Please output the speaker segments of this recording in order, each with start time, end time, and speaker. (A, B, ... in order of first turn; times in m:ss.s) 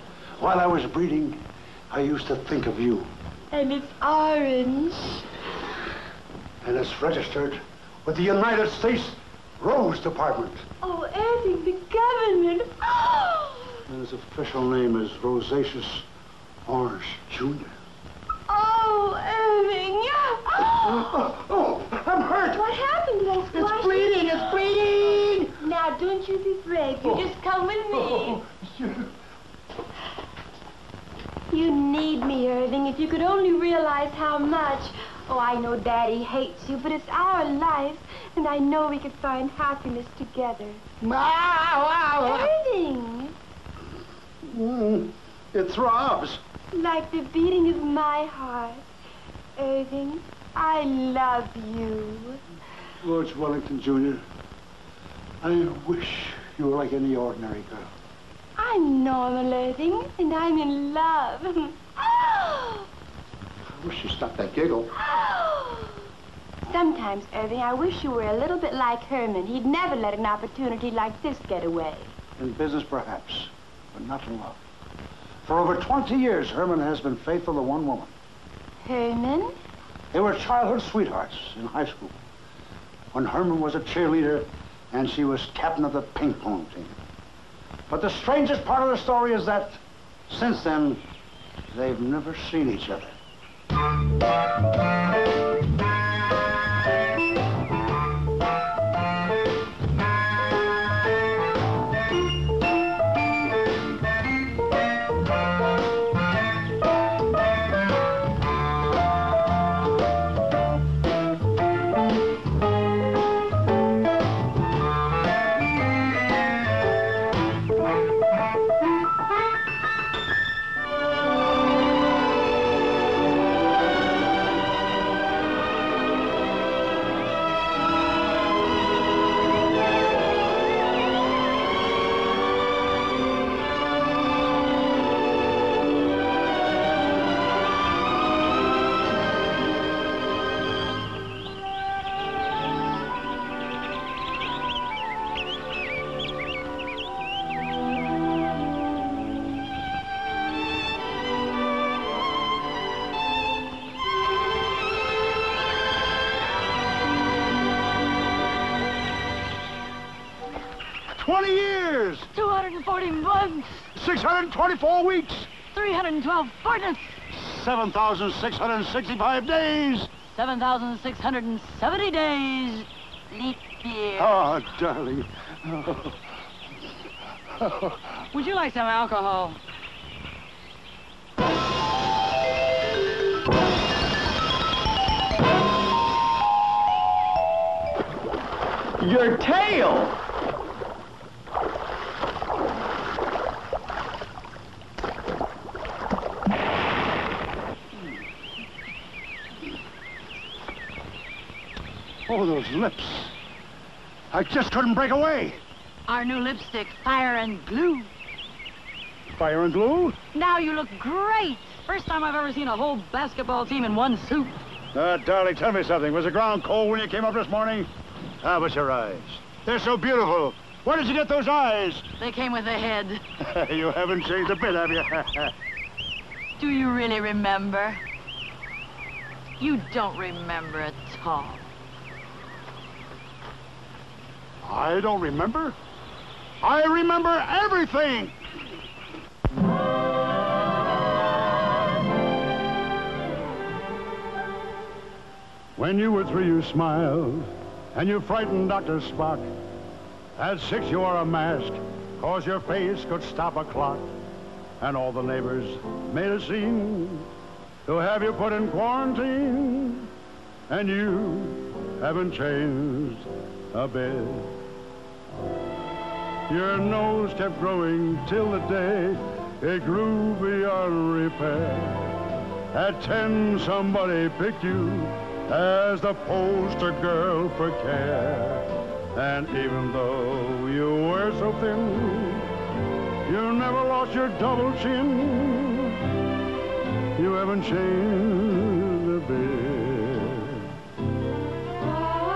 0:00.4-0:03.1 A
0:03.5-0:05.2 B
0:06.6-0:10.6 A
0:10.8-0:13.8 B
0:13.9-0:16.0 A
0:16.6-0:17.8 A
0:18.5-0:21.1 B
0:20.8-0:22.6 A
0:22.5-0:24.6 B
0:23.5-0:25.4 A
0:25.4-0:28.4 B
0:28.0-0:29.1 A
0:31.5-0:40.8 B
0:41.0-0:42.5 A
0:42.2-0:43.3 B
0:44.4-0:46.4 A
0:46.7-0:48.8 B
0:49.6-0:52.4 B
0:53.0-0:54.2 A
0:55.4-0:57.9 A
0:58.6-1:02.8 B
1:03.7-1:04.9 A
1:05.0-1:05.9 B
1:06.6-1:12.1 B
1:12.4-1:14.6 A
1:15.4-1:18.1 A
1:18.8-1:19.6 B
1:20.1-1:22.2 A
1:23.1-1:27.0 A
1:27.9-1:31.0 A
1:31.7-1:33.2 A
2:41.2-2:42.3 A
2:42.3-2:43.9 C
2:43.9-2:45.5 A
2:45.7-2:47.1 C
2:47.3-2:50.1 A
2:50.3-2:54.4 C
2:54.2-2:56.2 A
2:57.6-2:58.0 A
2:58.3-2:59.6 C
3:22.3-3:23.3 A
3:24.3-3:25.6 A
3:26.1-3:28.1 C
3:29.3-3:30.2 A
3:30.3-3:34.5 C
3:34.9-3:37.9 A
3:38.4-3:42.0 A
3:42.2-3:43.2 C
3:43.4-3:45.5 A
3:46.6-3:48.0 C
3:49.6-3:51.6 C
3:54.6-3:55.8 A
3:56.6-3:58.4 A
4:05.8-4:09.5 A
4:10.4-4:14.1 A
4:14.8-4:17.3 A
4:17.8-4:20.1 A
4:20.7-4:24.5 A
4:26.5-4:32.1 A
4:32.7-4:38.6 A
4:39.1-4:42.5 A
4:43.3-4:46.0 A
4:47.2-4:50.7 A